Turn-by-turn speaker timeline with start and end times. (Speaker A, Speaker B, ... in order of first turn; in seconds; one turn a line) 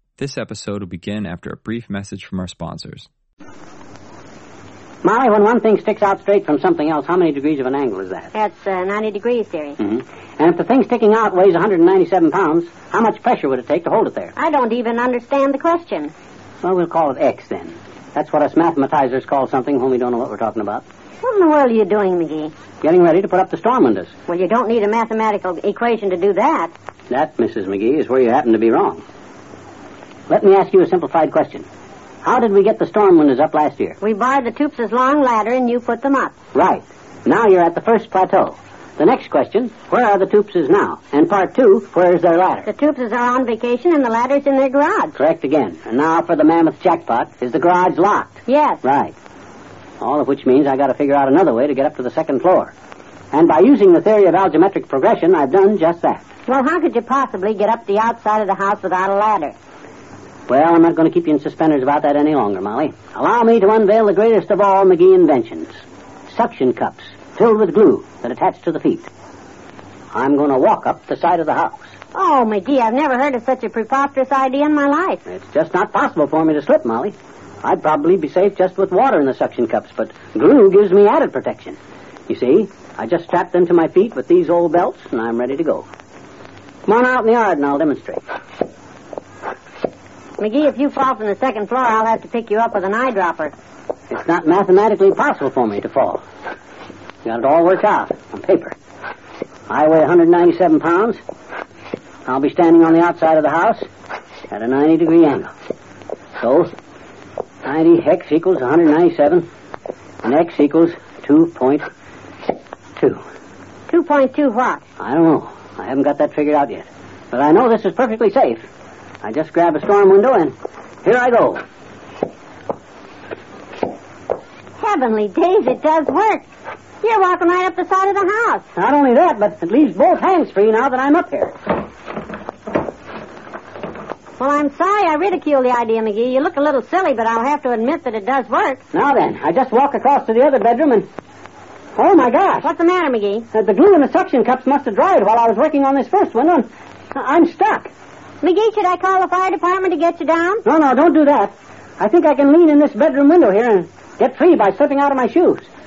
Speaker A: 0.2-3.1
Speaker B: 5.0-8.3
Speaker C: 8.3-9.8
Speaker B: 9.8-14.3
Speaker C: 14.3-16.1
Speaker B: 16.6-20.8
Speaker C: 21.2-22.5
Speaker B: 22.8-24.1
Speaker C: 24.3-26.7
Speaker B: 27.1-29.0
Speaker B: 30.3-31.6
Speaker B: 32.2-34.0
Speaker C: 34.0-36.3
Speaker B: 36.5-42.7
Speaker C: 42.6-45.2
Speaker B: 45.1-49.1
Speaker C: 48.5-48.8
Speaker B: 50.0-52.7
Speaker B: 53.3-56.2
Speaker C: 56.5-59.5
Speaker B: 60.5-69.1
Speaker B: 70.1-71.9
Speaker C: 72.1-75.2
Speaker B: 75.3-85.8
Speaker B: 86.8-88.2
Speaker C: 90.4-93.5
Speaker B: 94.1-96.2
Speaker B: 97.2-98.7
Speaker B: 99.7-101.2
Speaker B: 102.2-103.9
Speaker B: 104.5-105.5
Speaker B: 106.4-106.7
Speaker B: 107.6-109.5
Speaker B: 110.2-111.9
Speaker C: 113.9-114.8
Speaker B: 115.0-118.7
Speaker B: 119.2-121.6
Speaker C: 124.8-126.5
Speaker C: 127.0-128.7
Speaker B: 128.8-131.6
Speaker C: 134.4-138.8
Speaker B: 138.9-141.1
Speaker B: 141.9-142.7
Speaker C: 142.6-143.5
Speaker B: 143.5-147.9
Speaker C: 148.4-150.6
Speaker B: 150.6-155.7